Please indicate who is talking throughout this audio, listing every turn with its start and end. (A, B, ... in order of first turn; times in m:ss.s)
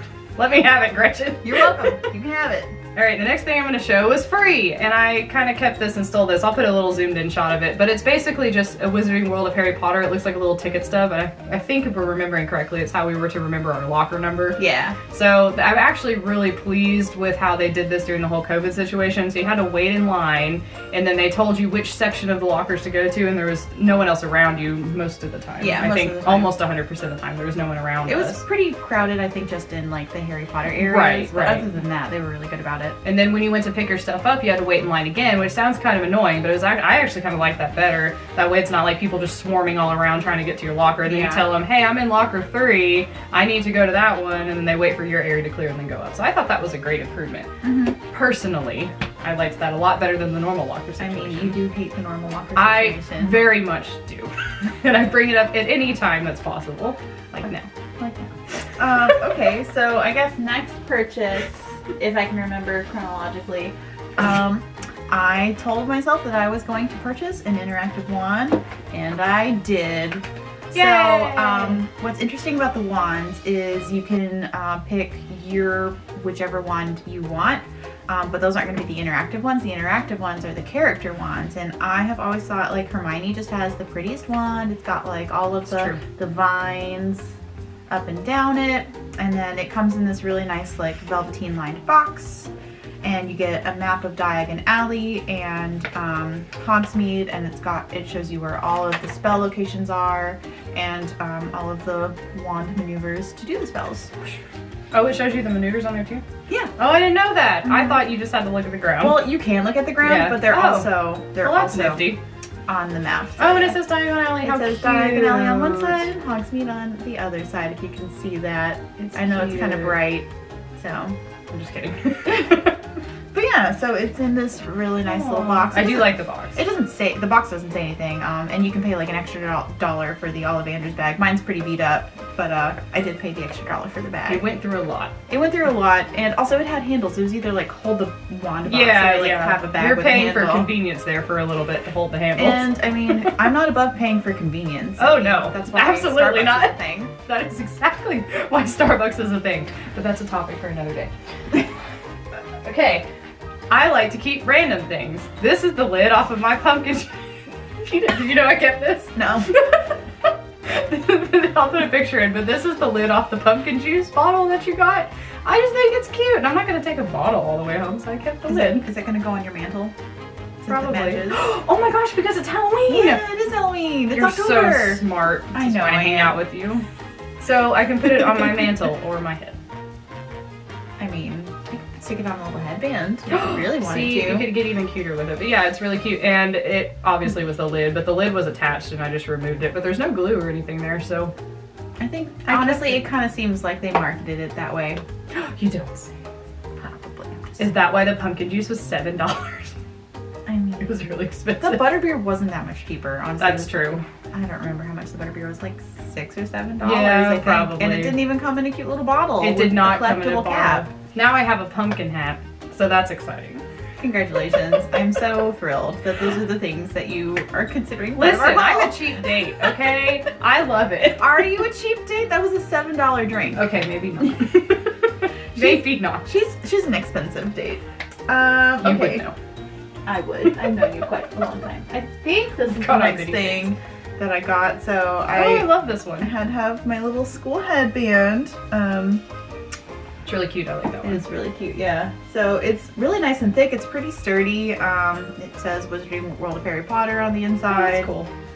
0:00.4-0:02.0 A
0:01.4-0:02.8 B
0:03.0-0:14.6 A
0:14.6-0:15.0 B
0:15.1-0:28.4 A
0:25.6-0:26.6 B
0:28.1-0:33.0 B
0:30.8-0:31.7 A
0:33.0-0:47.5 A
0:41.1-0:41.5 B
0:47.6-0:48.0 B
0:48.1-0:51.6 A
0:51.0-0:53.5 B
0:52.6-0:57.7 A
0:58.0-1:27.3 B
1:10.7-1:11.8 A
1:25.7-1:26.0 A
1:27.9-1:32.5 B
1:33.0-1:44.1 B
1:44.9-1:46.2 A
1:46.8-1:49.3 A
1:47.6-1:48.0 B
1:49.0-1:52.1 B
1:50.0-1:52.2 A
1:52.7-1:53.8 B
1:53.4-1:56.1 A
1:54.4-2:01.2 B
1:59.0-2:00.0 A
2:01.5-2:02.8 A
2:03.3-2:14.5 B
2:05.0-2:06.6 A
2:14.3-2:15.1 A
2:15.3-2:20.7 B
2:18.7-2:23.4 A
2:22.4-2:27.1 B
2:25.0-2:31.6 A
2:32.6-2:33.1 A
2:33.7-2:37.2 A
2:37.8-2:40.0 A
2:39.2-2:39.6 B
2:40.6-2:48.9 A
2:48.5-2:49.9 B
2:50.6-2:51.4 B
2:50.7-2:53.2 A
2:52.9-2:55.0 B
2:54.1-2:56.9 A
2:55.5-2:56.4 B
2:57.4-2:59.6 A
3:01.0-3:04.6 B
3:03.3-3:11.3 A
3:12.0-3:15.0 B
3:12.5-3:13.1 A
3:15.3-3:16.2 A
3:16.8-3:17.8 B
3:17.6-3:19.8 A
3:20.5-3:30.9 B
3:20.8-3:22.0 A
3:23.4-3:24.0 A
3:26.8-3:28.2 A
3:29.4-3:33.6 A
3:34.0-3:39.2 B
3:38.2-3:41.4 A
3:41.2-3:43.7 B
3:43.6-3:46.3 A
3:45.6-3:49.2 B
3:48.8-3:49.3 A
3:50.0-3:55.7 B
3:52.7-3:53.7 A
3:55.3-3:56.3 A
3:56.2-3:59.2 B
4:00.3-4:01.2 A
4:01.0-4:08.1 B
4:07.7-4:08.3 A